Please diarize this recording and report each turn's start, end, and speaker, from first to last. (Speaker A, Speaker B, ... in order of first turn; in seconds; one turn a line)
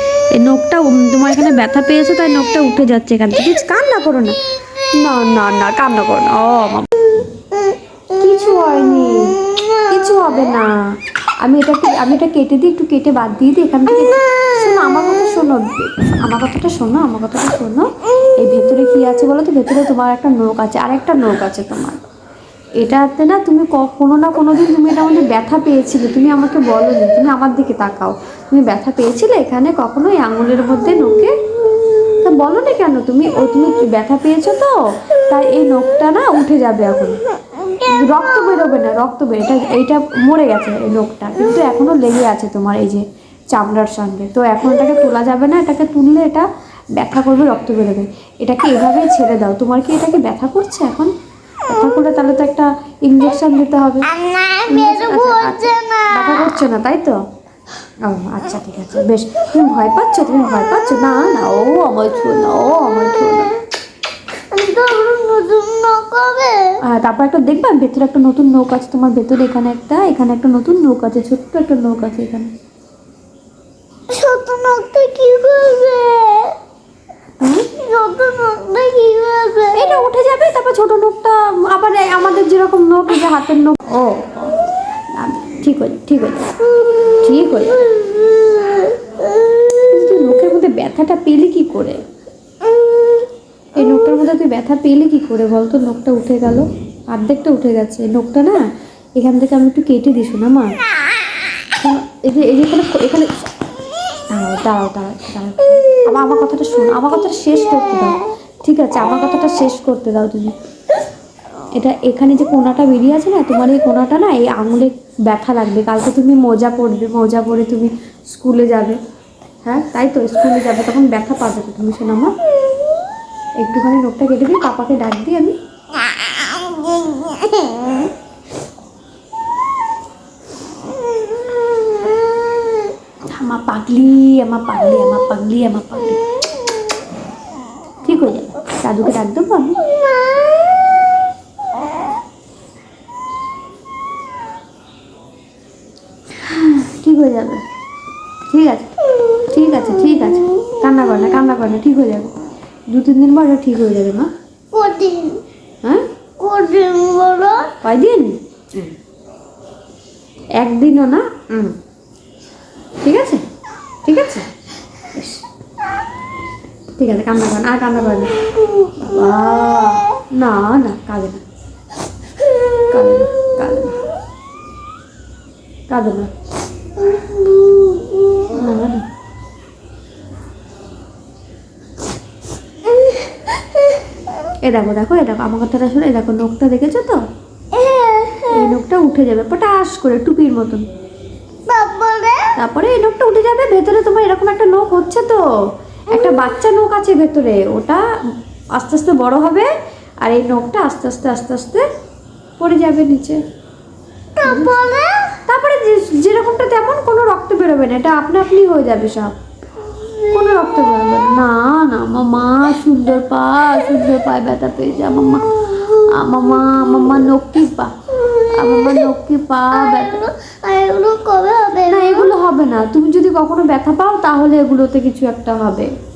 Speaker A: 0.3-4.4
Speaker A: 4.9-7.1
Speaker A: 8.1-10.7
Speaker A: 11.4-17.9
Speaker A: 18.4-22.0
Speaker A: 22.8-31.4
Speaker A: 32.1-37.2
Speaker A: 37.8-46.5
Speaker A: 47.0-51.1
Speaker A: 51.7-54.1
Speaker B: 54.2-56.5
Speaker A: 54.7-57.2
Speaker A: 58.0-63.6
Speaker B: 64.5-66.8
Speaker A: 66.8-72.5
Speaker B: 74.1-76.5
Speaker A: 77.4-77.7
Speaker B: 77.7-80.1
Speaker A: 79.8-84.5
Speaker A: 85.1-86.6
Speaker A: 87.1-87.9
Speaker B: 87.7-89.9
Speaker A: 89.9-92.0
Speaker B: 92.6-93.3
Speaker A: 93.7-98.6
Speaker A: 99.2-100.7
Speaker A: 101.8-103.3
Speaker A: 104.3-110.5
Speaker A: 111.8-119.0
Speaker A: 119.6-122.3
Speaker A: 123.6-125.6
Speaker B: 127.4-127.7
Speaker B: 131.5-132.8
Speaker A: 133.2-136.2
Speaker A: 138.0-139.8
Speaker A: 146.4-147.6
Speaker A: 148.5-152.3
Speaker A: 152.9-154.3
Speaker B: 154.7-155.4
Speaker B: 156.4-157.8
Speaker A: 157.8-158.9
Speaker A: 160.6-161.7
Speaker A: 163.0-163.4
Speaker A: 164.1-164.5
Speaker A: 165.2-165.4
Speaker A: 167.0-168.4
Speaker B: 168.8-169.3
Speaker A: 169.0-171.4
Speaker A: 172.8-174.1
Speaker A: 175.9-176.3
Speaker B: 177.0-178.7
Speaker A: 178.5-179.0
Speaker B: 182.9-184.0
Speaker A: 184.6-187.2
Speaker B: 187.7-188.7
Speaker A: 188.5-190.9
Speaker B: 191.7-192.5
Speaker A: 192.6-195.4
Speaker A: 196.1-198.0
Speaker B: 196.1-196.5
Speaker A: 198.8-199.7
Speaker A: 200.2-201.8
Speaker A: 202.6-203.4
Speaker B: 204.4-205.4
Speaker A: 204.4-204.8
Speaker A: 205.5-209.3
Speaker B: 209.8-210.7
Speaker A: 210.3-220.2
Speaker B: 215.7-216.9
Speaker B: 218.3-219.1
Speaker B: 219.7-222.3
Speaker A: 221.9-225.9